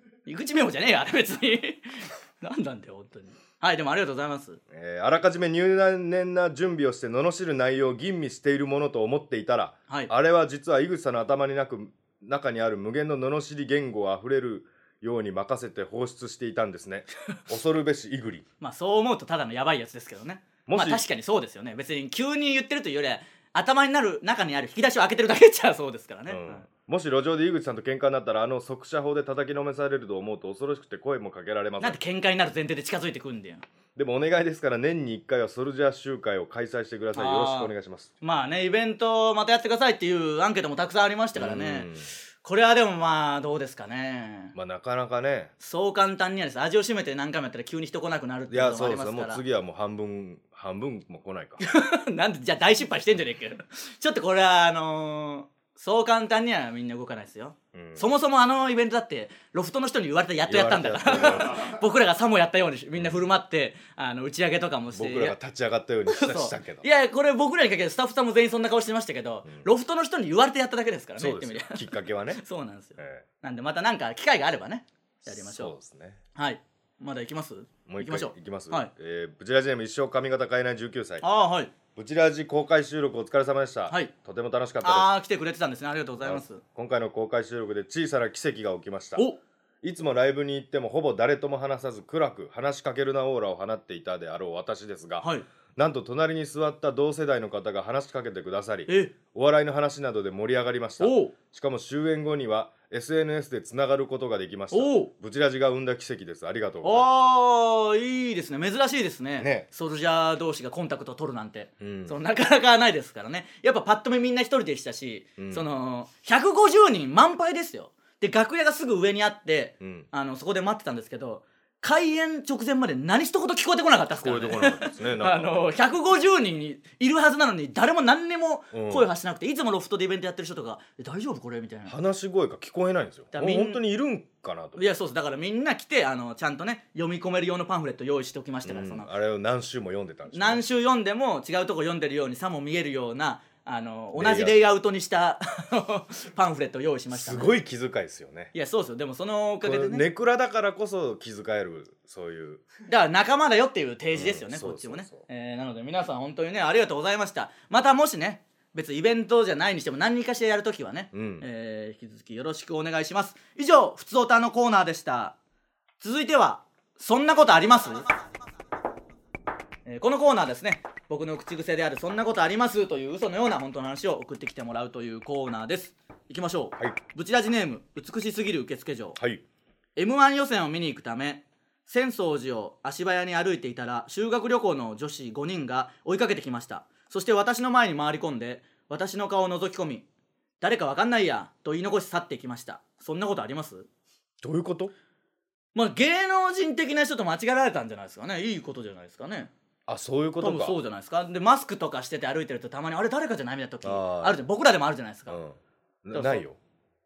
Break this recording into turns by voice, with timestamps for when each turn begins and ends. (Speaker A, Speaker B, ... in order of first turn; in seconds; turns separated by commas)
Speaker A: 0.2-4.6, Speaker B: 4.7-18.4, Speaker A: 18.6-26.6, Speaker B: 20.7-21.0, Speaker B: 26.3-32.0, Speaker A: 31.8-33.6, Speaker B: 34.0-38.1, Speaker A: 37.1-41.9, Speaker B: 41.4-42.1, Speaker A: 42.4-44.5, Speaker B: 44.5-45.5, Speaker A: 45.6-49.4, Speaker B: 48.5-51.6, Speaker A: 51.6-65.3, Speaker B: 57.7-58.0, Speaker B: 60.5-61.7, Speaker B: 64.9-66.8, Speaker A: 66.0-75.7, Speaker B: 71.2-72.4, Speaker B: 73.0-73.2, Speaker B: 75.3-76.2, Speaker A: 76.3-78.9, Speaker B: 77.9-81.2, Speaker A: 81.2-81.7, Speaker B: 81.9-85.1, Speaker A: 84.8-86.6, Speaker B: 86.2-89.2, Speaker B: 89.8-107.1, Speaker A: 95.2-95.5, Speaker A: 98.9-99.1, Speaker A: 101.0-101.3, Speaker A: 104.7-105.1, Speaker A: 106.8-131.9, Speaker B: 109.4-109.7, Speaker B: 111.8-112.2, Speaker B: 115.4-115.7, Speaker B: 119.8-120.1, Speaker B: 124.2-125.6, Speaker B: 128.7-129.1, Speaker B: 131.9-134.8, Speaker A: 133.3-133.8, Speaker A: 134.8-139.1, Speaker B: 138.6-140.6, Speaker A: 140.3-147.5, Speaker B: 144.2-144.6, Speaker B: 147.1-148.5, Speaker A: 148.5-150.0, Speaker B: 149.6-152.6, Speaker A: 152.9-165.3, Speaker B: 154.1-155.2, Speaker B: 161.1-161.4, Speaker A: 166.0-168.1, Speaker A: 169.8-179.2, Speaker B: 179.2-179.4, Speaker A: 179.9-190.0, Speaker A: 190.6-193.9, Speaker B: 194.4-194.9, Speaker A: 195.7-199.5, Speaker B: 199.9-200.8, Speaker A: 200.4-205.4, Speaker B: 203.8-204.4, Speaker B: 205.3-206.6, Speaker A: 206.1-206.4